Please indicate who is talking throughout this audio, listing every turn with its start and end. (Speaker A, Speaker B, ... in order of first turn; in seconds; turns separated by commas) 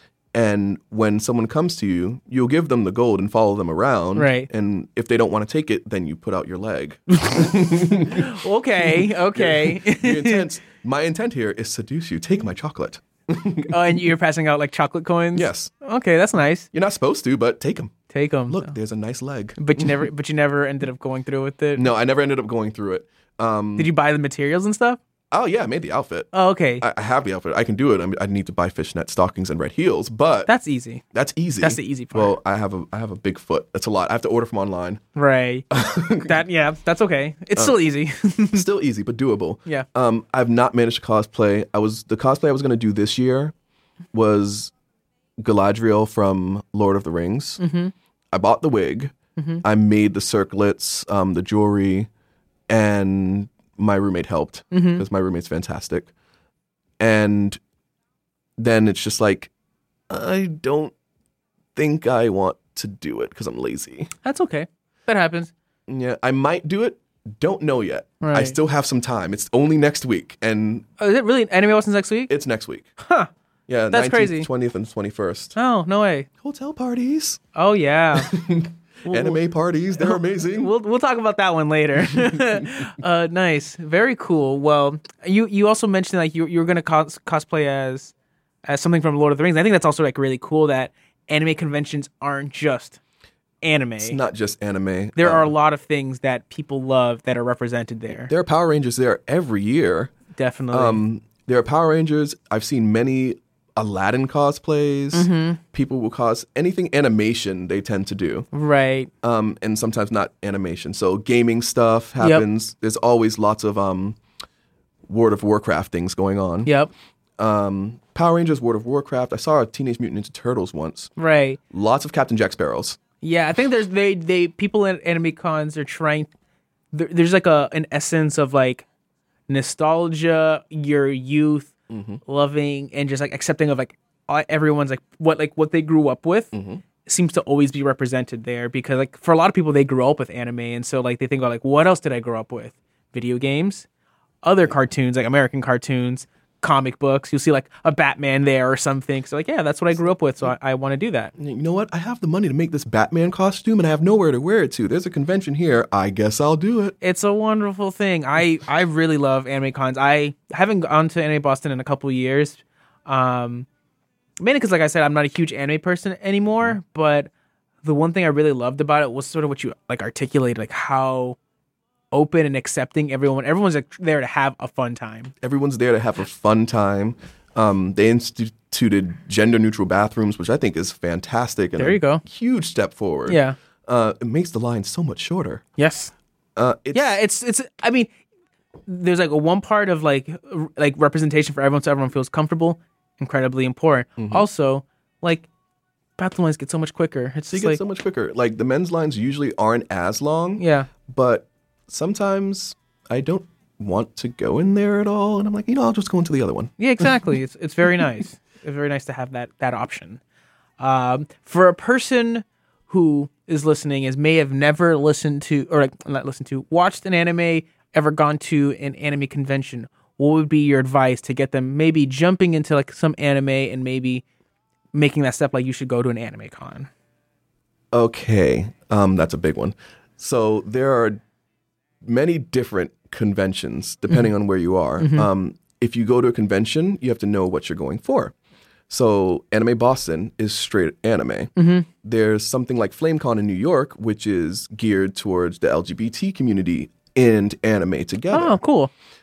Speaker A: 0.3-8.3, Speaker B: 4.2-4.5, Speaker B: 7.3-10.5, Speaker A: 8.8-14.0, Speaker B: 13.7-16.7, Speaker A: 15.3-15.7, Speaker A: 16.7-18.0, Speaker B: 18.1-18.7, Speaker A: 18.5-20.1, Speaker B: 19.6-21.9, Speaker A: 21.8-23.9, Speaker B: 23.8-25.0, Speaker A: 25.3-30.5, Speaker B: 26.3-26.9, Speaker B: 30.5-31.0, Speaker A: 31.1-35.0, Speaker B: 31.6-32.4, Speaker B: 35.1-35.7, Speaker A: 35.7-36.4, Speaker B: 36.2-38.6, Speaker A: 38.5-43.5, Speaker A: 44.1-44.7, Speaker A: 45.4-47.6, Speaker B: 47.6-47.9, Speaker A: 48.3-52.1, Speaker B: 49.4-49.6, Speaker A: 52.7-56.1, Speaker B: 54.7-55.0, Speaker A: 57.0-57.6, Speaker A: 58.6-59.5, Speaker A: 60.1-60.9, Speaker A: 61.8-64.1, Speaker B: 64.2-65.5, Speaker A: 65.9-70.9, Speaker B: 68.2-68.6, Speaker B: 71.0-72.3, Speaker A: 72.3-72.9, Speaker B: 73.0-73.3, Speaker A: 73.7-75.5, Speaker B: 73.9-74.5, Speaker B: 75.6-76.3, Speaker A: 76.4-77.4, Speaker B: 77.5-78.3, Speaker A: 78.2-80.7, Speaker B: 79.1-79.4, Speaker B: 80.0-88.1, Speaker A: 82.0-82.7, Speaker B: 88.7-93.0, Speaker B: 93.6-94.2, Speaker A: 94.0-95.5, Speaker B: 95.2-98.3, Speaker A: 98.1-100.1, Speaker B: 100.4-101.0, Speaker A: 100.7-108.5, Speaker B: 105.1-105.6, Speaker B: 108.5-109.1, Speaker A: 109.2-114.2, Speaker B: 112.2-112.5, Speaker A: 115.1-116.7, Speaker B: 116.7-116.9, Speaker A: 117.4-121.1, Speaker B: 121.2-121.6, Speaker A: 121.7-123.0, Speaker B: 123.2-126.3, Speaker B: 126.9-128.8, Speaker B: 129.5-131.7, Speaker A: 131.9-132.2, Speaker B: 132.3-143.9, Speaker A: 136.5-136.8, Speaker B: 144.4-151.3, Speaker A: 151.4-156.9, Speaker B: 157.0-163.7, Speaker B: 164.4-167.3, Speaker B: 167.8-171.4, Speaker B: 172.1-175.3, Speaker A: 175.4-185.6, Speaker B: 181.8-182.2, Speaker B: 183.3-183.6, Speaker B: 185.8-186.1, Speaker A: 186.6-187.2, Speaker B: 186.9-188.1, Speaker B: 188.9-195.5, Speaker A: 194.2-194.5, Speaker B: 196.2-197.8, Speaker A: 197.5-207.1, Speaker B: 200.6-200.9, Speaker B: 206.8-210.2, Speaker B: 210.8-224.2, Speaker B: 224.9-226.9, Speaker A: 227.9-231.2, Speaker A: 232.0-238.3, Speaker B: 235.0-235.3, Speaker A: 238.9-241.5, Speaker B: 241.6-241.9, Speaker A: 242.0-248.6, Speaker B: 248.3-248.9